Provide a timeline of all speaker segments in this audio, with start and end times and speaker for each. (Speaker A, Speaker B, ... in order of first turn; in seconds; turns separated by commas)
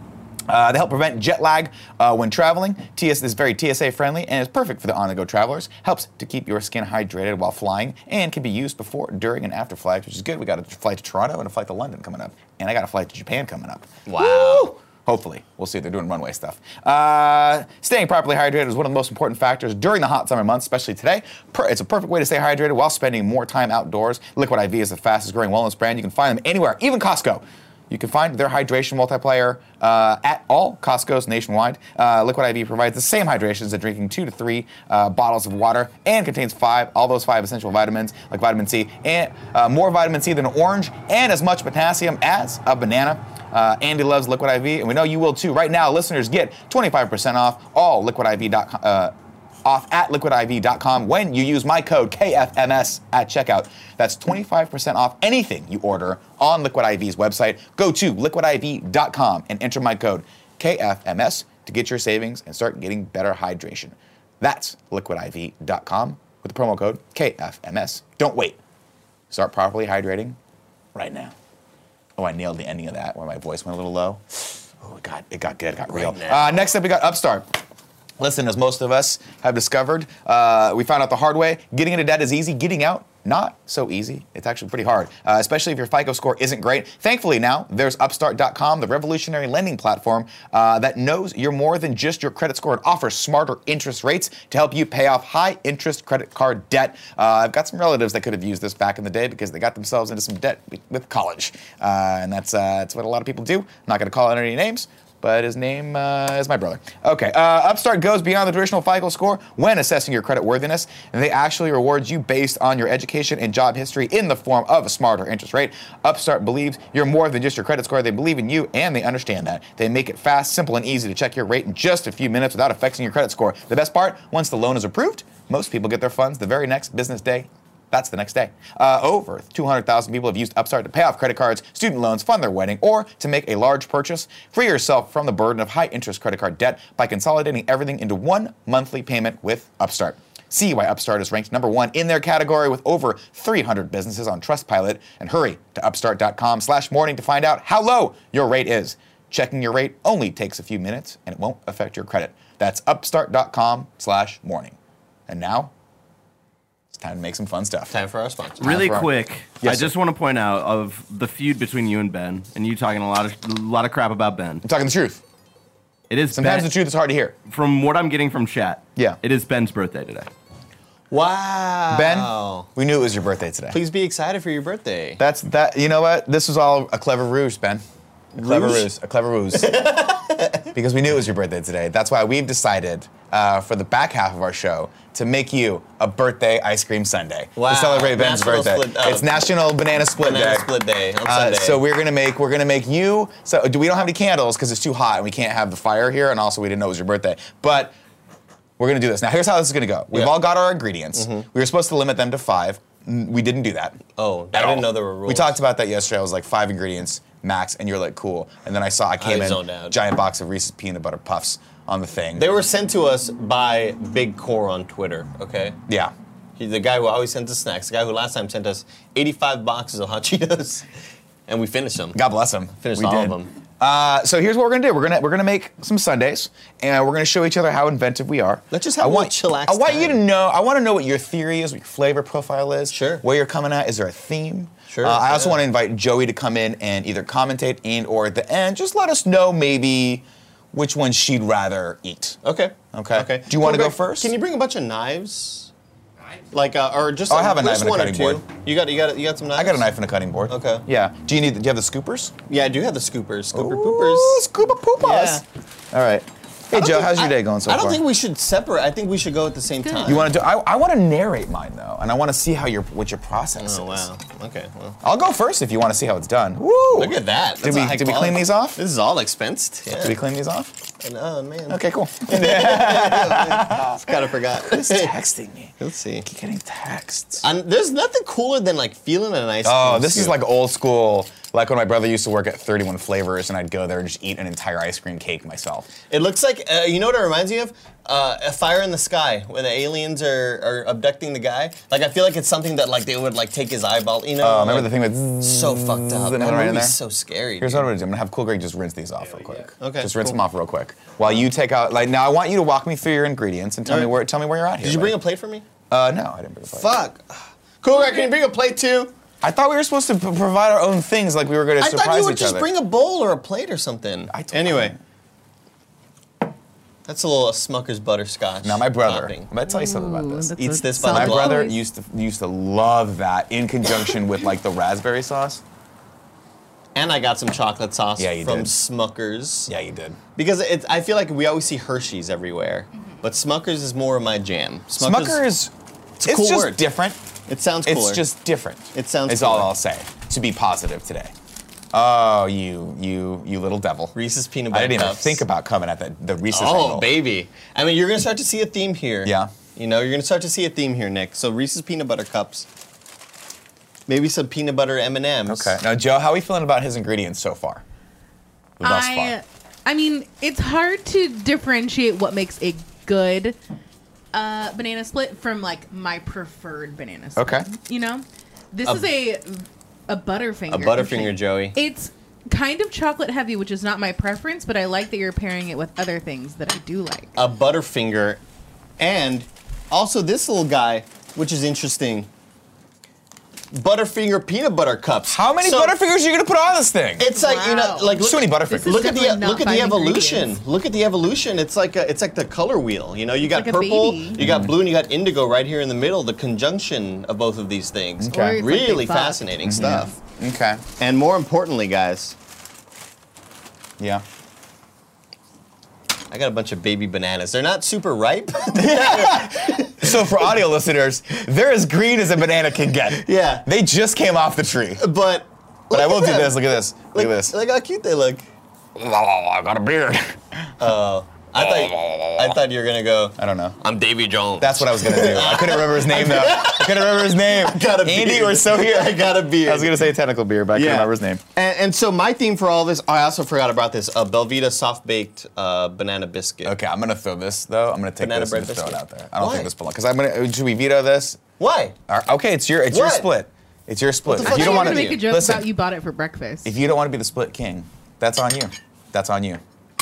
Speaker A: 0.5-49.1, Speaker B: 14.1-14.7, Speaker A: 49.6-68.6, Speaker A: 69.3-70.4, Speaker A: 71.0-71.3, Speaker A: 72.2-77.6, Speaker B: 75.9-76.6, Speaker A: 78.2-154.8, Speaker A: 155.3-155.7, Speaker A: 156.9-157.9, Speaker B: 157.9-158.7, Speaker A: 158.6-159.1, Speaker C: 158.6-164.6, Speaker A: 159.6-159.9, Speaker A: 164.6-165.2, Speaker C: 166.1-166.7, Speaker A: 166.3-167.4, Speaker C: 167.5-170.3, Speaker B: 171.1-172.7, Speaker A: 171.9-173.8, Speaker B: 173.7-175.2, Speaker A: 175.2-177.8, Speaker B: 178.3-178.9, Speaker A: 178.4-179.8, Speaker B: 179.5-180.7, Speaker A: 180.7-198.0, Speaker B: 187.6-189.5, Speaker B: 190.2-191.8, Speaker A: 198.8-204.0, Speaker B: 200.1-200.4, Speaker B: 201.1-201.5, Speaker B: 204.2-205.6, Speaker A: 204.5-212.5, Speaker B: 209.2-210.0, Speaker B: 212.4-215.8, Speaker A: 215.9-216.1, Speaker B: 216.6-220.8, Speaker B: 221.5-222.2, Speaker A: 222.2-242.4, Speaker B: 222.8-223.5, Speaker B: 228.7-230.2, Speaker B: 232.9-233.2, Speaker B: 234.9-235.6, Speaker B: 242.4-245.7, Speaker A: 242.9-244.3, Speaker B: 246.5-249.9, Speaker A: 247.3-248.4, Speaker A: 249.6-252.3, Speaker B: 250.5-250.9, Speaker B: 252.5-254.4, Speaker A: 253.5-258.0, Speaker B: 255.0-255.4, Speaker B: 256.7-260.3, Speaker D: 259.8-260.2, Speaker A: 260.1-264.1, Speaker B: 263.6-265.0, Speaker A: 265.0-268.8, Speaker B: 266.9-270.2, Speaker A: 270.0-270.7, Speaker B: 271.0-275.1, Speaker A: 271.7-274.1, Speaker A: 274.7-277.4, Speaker B: 275.8-276.3, Speaker B: 277.4-280.4, Speaker A: 279.6-285.9, Speaker B: 286.1-297.9, Speaker A: 294.4-297.0, Speaker A: 297.6-305.2, Speaker B: 299.8-300.4, Speaker B: 303.9-304.2, Speaker B: 304.8-305.6, Speaker A: 305.9-306.9, Speaker B: 306.7-309.1, Speaker A: 309.4-312.7, Speaker B: 311.8-315.0, Speaker A: 314.3-315.0, Speaker B: 317.1-319.5, Speaker A: 318.6-325.6, Speaker D: 319.6-321.8, Speaker B: 320.6-321.7, Speaker B: 326.9-329.7, Speaker A: 328.2-328.7, Speaker A: 329.7-330.2, Speaker B: 330.4-335.4, Speaker A: 335.0-335.7, Speaker B: 336.2-336.9, Speaker A: 336.2-337.2, Speaker B: 337.5-338.2, Speaker A: 337.9-341.3, Speaker B: 338.9-339.7, Speaker A: 341.9-344.2, Speaker B: 344.1-345.4, Speaker A: 344.7-347.1, Speaker B: 346.5-352.7, Speaker A: 349.2-349.5, Speaker B: 354.1-355.8, Speaker A: 355.5-357.8, Speaker A: 358.8-359.4, Speaker D: 358.8-363.6, Speaker D: 364.3-377.4, Speaker A: 367.4-367.7, Speaker B: 370.7-371.8, Speaker B: 377.4-378.4, Speaker B: 379.0-382.3, Speaker B: 383.7-386.0, Speaker A: 385.3-387.3, Speaker B: 387.2-400.1, Speaker D: 387.3-390.6, Speaker A: 388.1-389.1, Speaker D: 393.4-394.4, Speaker A: 394.4-394.7, Speaker A: 398.2-398.6, Speaker D: 398.3-400.1, Speaker A: 399.6-400.8, Speaker B: 401.0-402.4, Speaker A: 404.0-404.2, Speaker B: 406.3-410.6, Speaker A: 408.8-415.0, Speaker B: 413.2-413.7, Speaker B: 415.0-418.5, Speaker A: 415.9-417.6, Speaker A: 419.0-420.7, Speaker B: 420.8-430.0, Speaker A: 421.6-422.6, Speaker A: 423.4-423.8, Speaker A: 424.6-431.4, Speaker B: 430.7-436.8, Speaker A: 436.6-441.4, Speaker B: 438.2-439.7, Speaker B: 441.6-442.0, Speaker A: 442.1-445.7, Speaker B: 442.9-443.3, Speaker B: 444.3-445.2, Speaker D: 444.4-446.8, Speaker A: 446.6-449.6